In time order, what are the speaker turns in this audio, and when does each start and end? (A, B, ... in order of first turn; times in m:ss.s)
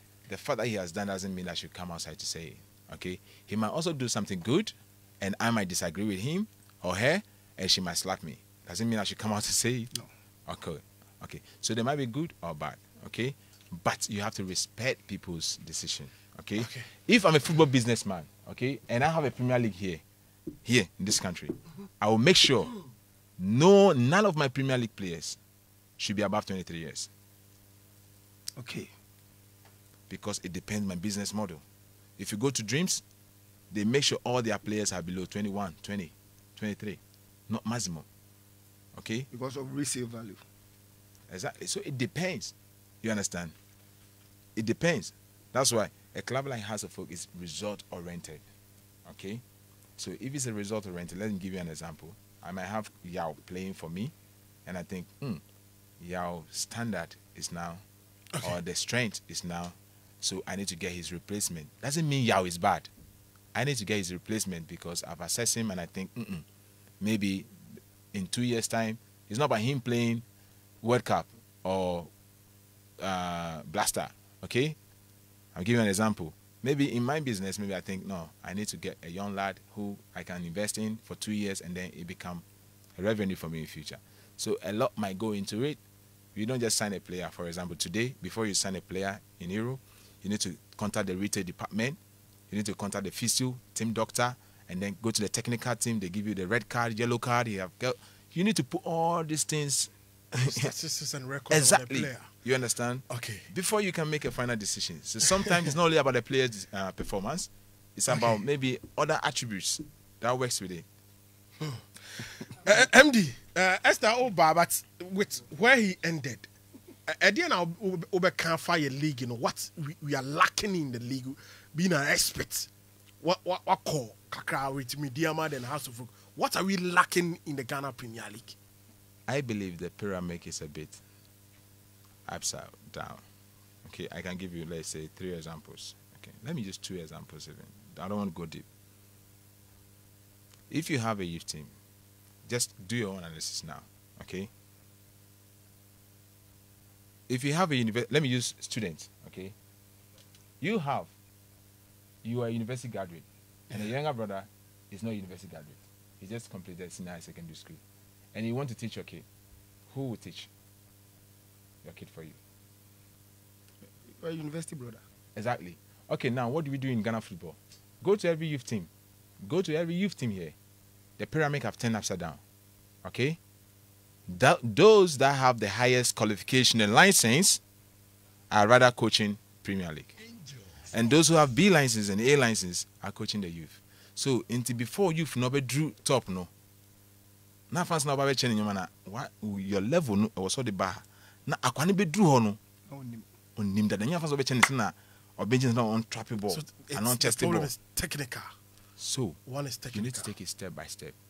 0:00.2-0:09.9 A
0:10.5-0:20.0 A
0:16.6-0:16.9 B
0:20.6-0:22.8 A
0:23.4-0:25.4 A
0:26.0-0:27.1 A
0:28.6-0:28.9 C
0:30.1-0:31.6 A
0:32.2-0:33.0 A
0:33.7-0:38.0 A
0:38.9-0:39.3 A
0:39.3-0:40.4 C
0:41.3-0:43.5 A
0:44.6-0:48.4 A
0:49.0-0:49.4 A
0:50.0-0:54.1 A
0:54.6-0:55.4 A
0:56.0-0:57.8 A
0:58.4-1:02.9 A
1:03.5-1:06.4 A
1:07.0-1:07.5 A
1:08.1-1:10.2 A
1:10.8-1:12.1 A
1:13.0-1:14.8 A
1:15.5-1:22.4 A
1:23.0-1:25.8 A
1:26.3-1:32.0 A
1:32.5-1:40.7 A
1:40.4-1:42.3 B
1:41.5-1:50.8 A
1:43.1-1:43.5 B
1:51.6-1:56.5 B
1:57.1-2:02.7 B
2:03.2-2:08.6 B
2:09.3-2:11.0 A
2:12.2-2:13.2 A
2:13.8-2:18.6 A
2:20.7-2:21.7 A
2:22.5-2:24.5 A
2:27.3-2:29.5 A
2:30.6-2:31.1 A
2:32.2-2:37.8 A
2:38.3-2:39.2 A
2:39.9-2:40.5 A
2:41.8-2:42.4 A
2:44.1-2:45.0 C
2:45.4-2:48.9 A
2:49.4-2:50.5 A
2:51.2-2:52.4 A
2:53.0-2:53.4 A
2:54.3-2:57.6 A
2:58.5-3:00.1 A
3:00.9-3:06.5 A
3:07.7-3:12.6 A
3:12.9-3:13.2 C
3:13.6-3:17.7 A
3:16.5-3:18.5 B
3:19.0-3:19.4 A
3:19.4-3:20.3 B
3:19.9-3:21.1 A